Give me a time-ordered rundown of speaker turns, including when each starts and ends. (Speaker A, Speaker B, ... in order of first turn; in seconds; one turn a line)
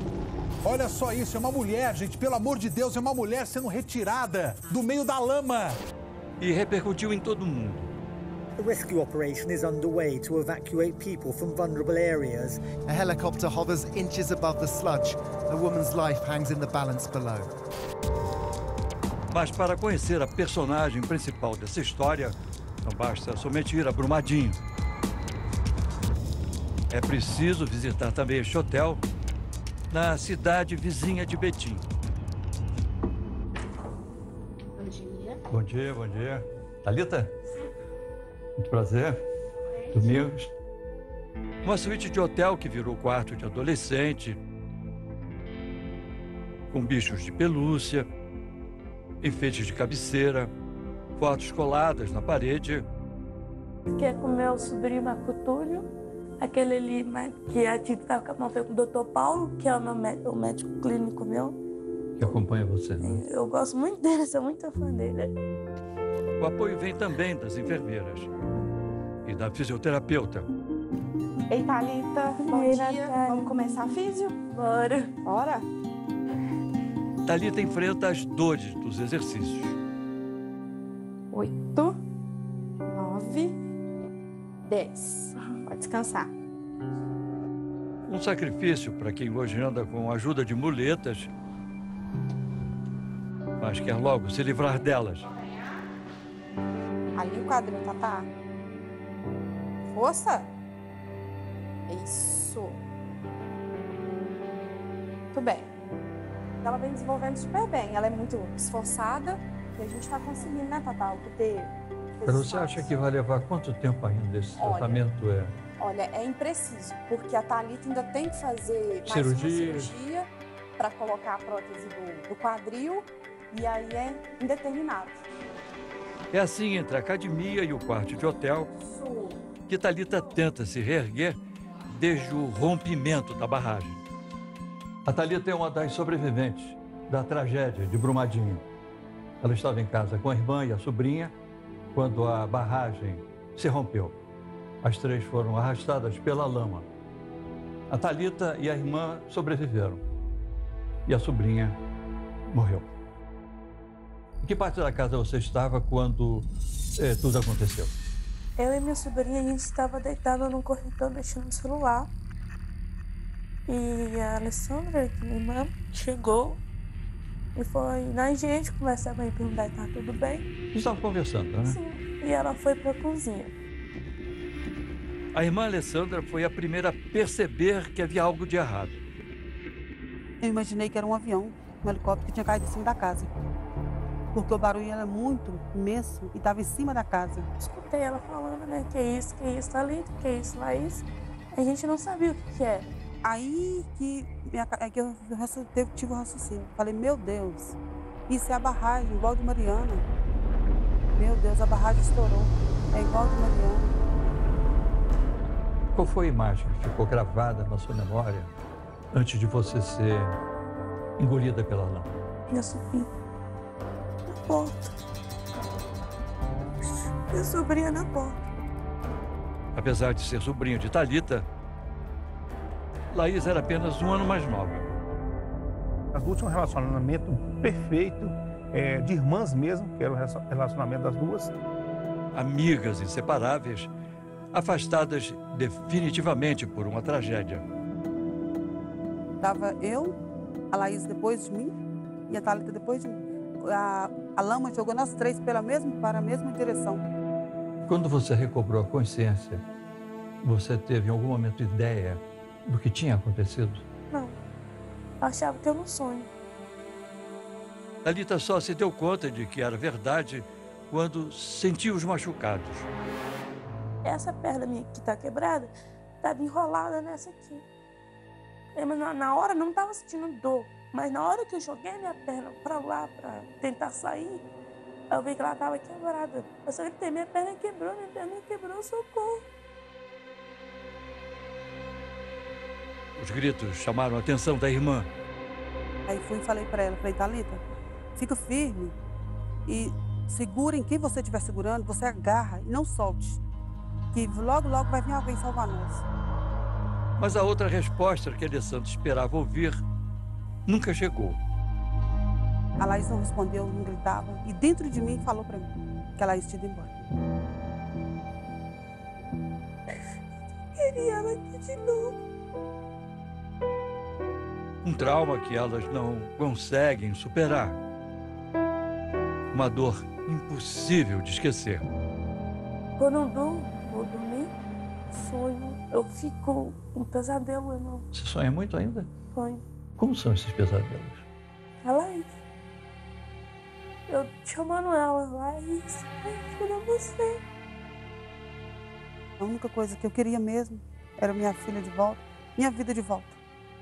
Speaker A: 0.6-5.8
Speaker B: 6.4-7.9
Speaker C: 8.6-12.8
Speaker D: 12.8-17.5
Speaker B: 19.3-24.6
Speaker B: 26.9-29.0
Speaker B: 29.9-31.8
Speaker E: 34.8-35.3
Speaker B: 35.5-37.3
Speaker B: 38.6-39.2
Speaker B: 39.9-40.5
Speaker B: 41.6-44.4
Speaker B: 46.7-48.1
Speaker B: 49.2-50.5
Speaker B: 51.2-52.8
Speaker F: 53.9-55.9
Speaker F: 56.4-61.6
Speaker B: 62.2-63.2
Speaker F: 63.0-65.3
Speaker B: 66.4-68.3
Speaker B: 69.2-70.5
Speaker E: 71.5-74.4
Speaker F: 72.4-75.1
Speaker E: 75.2-75.7
Speaker B: 77.2-79.8
Speaker E: 81.3-82.0
Speaker E: 82.9-83.6
Speaker E: 84.7-86.3
Speaker B: 88.1-91.3
Speaker B: 93.6-95.3
Speaker E: 97.2-98.3
Speaker E: 99.9-100.5
Speaker E: 101.9-102.8
Speaker E: 105.3-105.7
Speaker E: 106.6-112.9
Speaker B: 112.2-115.5
Speaker E: 114.6-115.0
Speaker E: 115.8-125.2
Speaker B: 119.1-119.9
Speaker B: 126.3-128.7
Speaker E: 128.8-129.4
Speaker B: 129.7-131.4
Speaker B: 131.9-134.0
Speaker B: 135.1-138.7
Speaker B: 139.4-141.3
Speaker B: 141.9-144.2
Speaker B: 144.8-146.9
Speaker B: 147.9-150.0
Speaker B: 151.1-151.8
Speaker B: 152.5-152.9
Speaker B: 154.4-156.5
Speaker B: 157.0-157.9
Speaker F: 158.6-162.1
Speaker F: 163.7-166.6
Speaker F: 167.6-170.5
Speaker B: 170.7-171.8
Speaker F: 171.6-173.5
Speaker B: 175.3-179.0
Speaker G: 180.4-183.3
Speaker G: 184.3-187.5
Speaker F: 187.6-192.9
Speaker G: 193.2-200.1
Speaker G: 201.2-203.9
Speaker B: 205.9-208.5
Speaker B: 209.1-210.4
Speaker B: 211.2-212.1
Speaker F: 212.5-213.1
Speaker F: 214.3-214.9
Speaker F: 217.3-218.4
Speaker B: 219.8-221.5
Speaker B: 223.1-225.0
Speaker H: 226.1-231.6
Speaker B: 232.3-233.9
Speaker B: 234.5-237.7
Speaker G: 239.4-240.2
Speaker G: 240.7-241.7
Speaker G: 242.3-247.1
Speaker B: 247.8-249.6
Speaker B: 250.4-253.8
Speaker F: 254.1-254.4
Speaker F: 255.2-256.3
Speaker B: 258.0-262.9
Speaker F: 264.0-267.6
Speaker F: 268.8-274.5
Speaker F: 275.1-279.5
Speaker B: 283.2-285.1
Speaker G: 286.1-287.6
Speaker G: 288.2-289.0
Speaker G: 289.7-293.4
Speaker G: 294.1-296.0
Speaker B: 297.2-299.8
Speaker B: 300.7-301.4
Speaker G: 302.8-307.1
Speaker F: 310.8-312.1
Speaker B: 314.8-317.8
Speaker B: 319.5-321.9
Speaker F: 323.0-324.5
Speaker F: 325.1-328.1
Speaker B: 328.1-329.1
Speaker F: 329.3-329.6
Speaker B: 330.0-331.2
Speaker F: 331.8-332.3
Speaker F: 334.1-337.4
Speaker G: 339.4-343.4